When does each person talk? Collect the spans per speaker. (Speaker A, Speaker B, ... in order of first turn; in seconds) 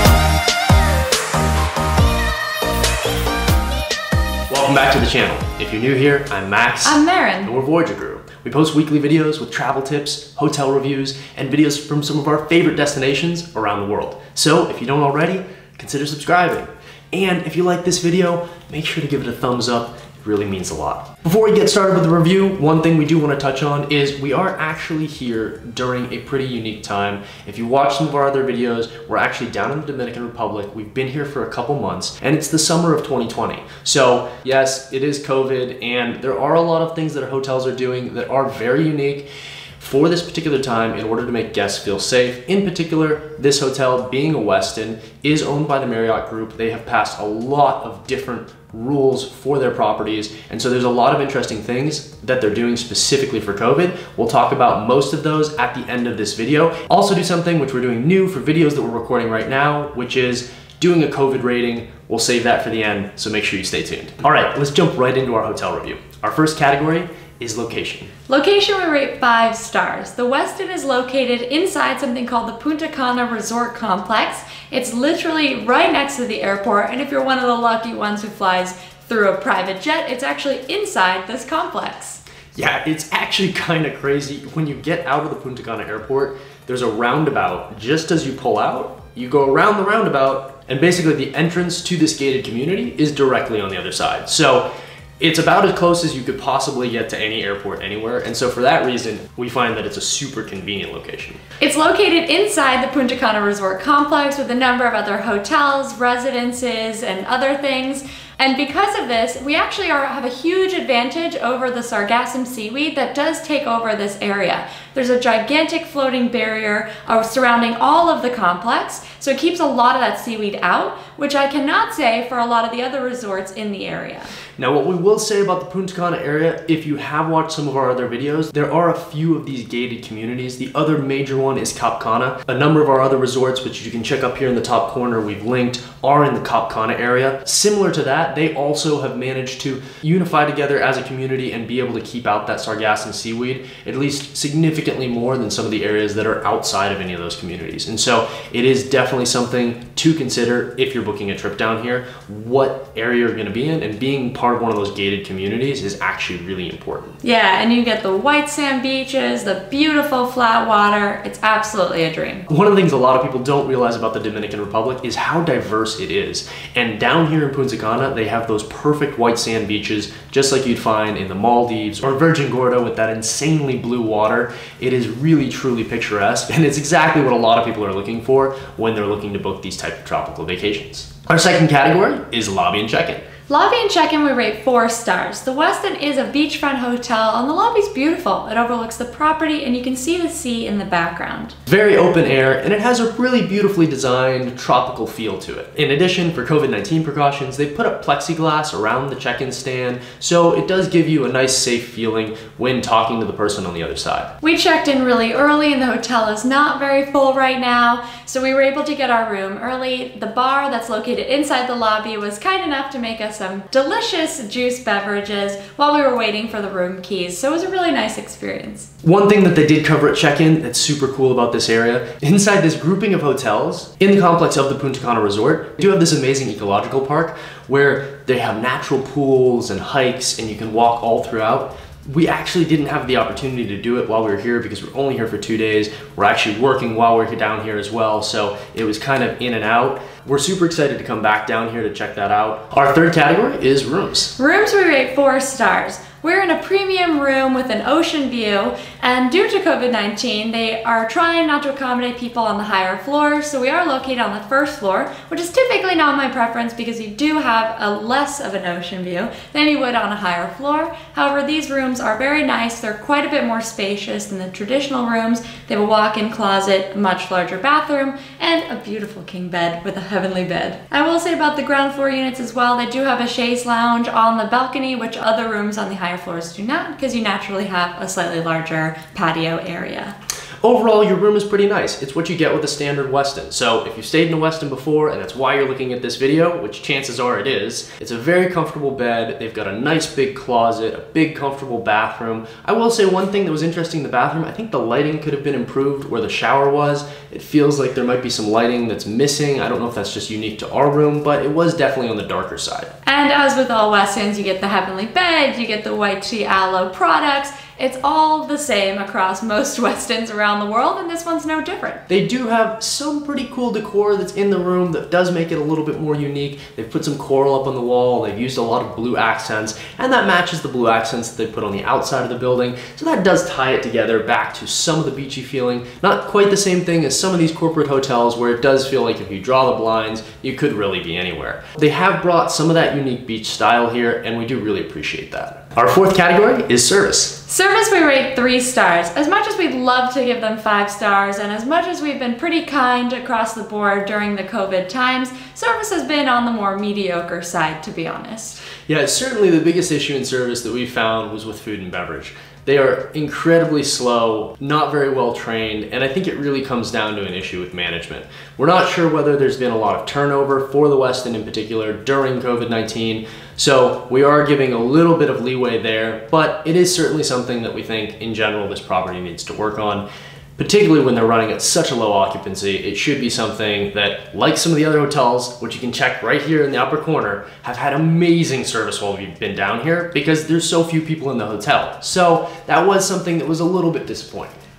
Speaker A: 4.5-68.1, 82.5-94.7, 95.2-101.4, 124.6-157.2, 162.5-183.2, 191.7-204.3, 219.0-244.3, 280.6-302.9, 312.1-337.4, 348.9-370.1, 370.6-384.6
Speaker B: 6.8-7.5, 68.3-82.2, 101.6-124.3, 157.2-162.5, 183.5-191.5, 204.4-218.9, 244.4-280.1, 303.1-312.0, 337.5-348.6